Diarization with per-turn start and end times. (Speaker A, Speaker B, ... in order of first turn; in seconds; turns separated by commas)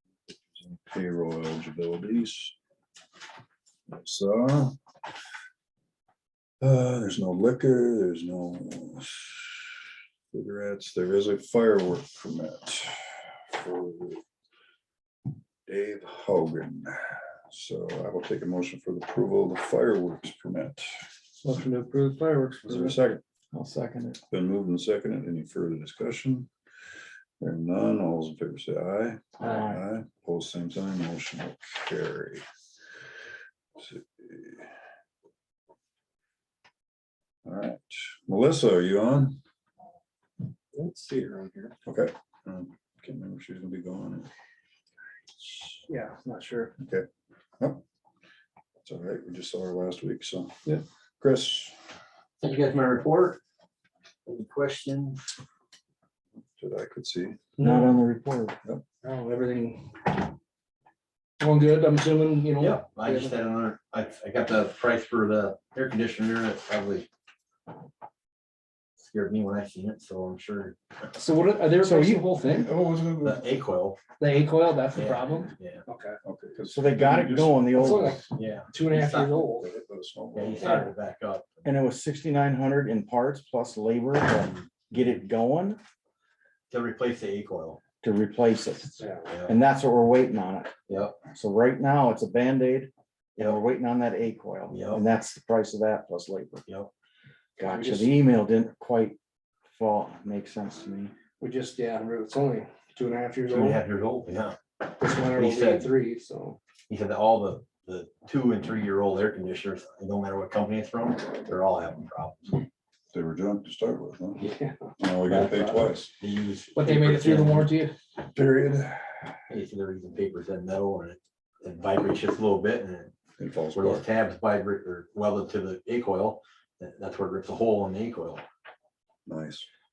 Speaker A: 0.3-2.5, Speaker A: 3.9-4.8, Speaker A: 6.6-9.8, Speaker A: 10.3-14.2, Speaker A: 15.7-21.0, Speaker B: 21.4-23.0, Speaker A: 22.6-23.2, Speaker C: 23.5-24.2, Speaker A: 24.3-26.5, Speaker A: 27.4-32.4, Speaker C: 29.4-29.8, Speaker A: 33.8-34.8, Speaker A: 37.5-39.4, Speaker B: 41.0-41.3, Speaker A: 41.9-44.3, Speaker B: 45.9-46.7, Speaker A: 46.8-47.1, Speaker A: 48.9-50.6, Speaker A: 51.2-51.8, Speaker D: 52.4-53.4, Speaker D: 54.3-55.2, Speaker A: 56.6-57.4, Speaker B: 57.6-58.0, Speaker C: 57.6-58.6, Speaker B: 59.0-60.1, Speaker B: 61.4-63.4, Speaker D: 62.6-67.1, Speaker D: 69.0-70.8, Speaker B: 71.1-72.7, Speaker C: 71.8-72.3, Speaker A: 72.5-73.5, Speaker D: 73.2-74.0, Speaker B: 74.2-76.2, Speaker D: 74.9-75.8, Speaker A: 76.2-77.8, Speaker C: 76.7-78.2, Speaker B: 77.7-79.7, Speaker D: 78.3-79.5, Speaker A: 79.6-80.7, Speaker D: 80.3-81.7, Speaker B: 80.6-80.9, Speaker C: 81.6-85.8, Speaker D: 86.7-87.8, Speaker C: 88.0-90.7, Speaker B: 89.0-89.3, Speaker D: 89.3-89.5, Speaker D: 90.9-91.2, Speaker C: 91.3-96.7, Speaker D: 93.4-93.6, Speaker D: 94.7-95.0, Speaker C: 97.6-99.2, Speaker B: 97.6-98.1, Speaker C: 99.7-101.2, Speaker B: 101.4-103.8, Speaker D: 103.5-104.6, Speaker B: 105.0-106.6, Speaker D: 105.1-106.0, Speaker D: 106.9-112.7, Speaker A: 113.1-114.5, Speaker B: 114.5-115.9, Speaker A: 115.0-116.1, Speaker D: 115.3-117.8, Speaker B: 116.8-118.0, Speaker A: 118.2-119.4, Speaker D: 119.5-123.1, Speaker A: 123.4-124.1, Speaker D: 123.7-128.4, Speaker A: 129.3-129.7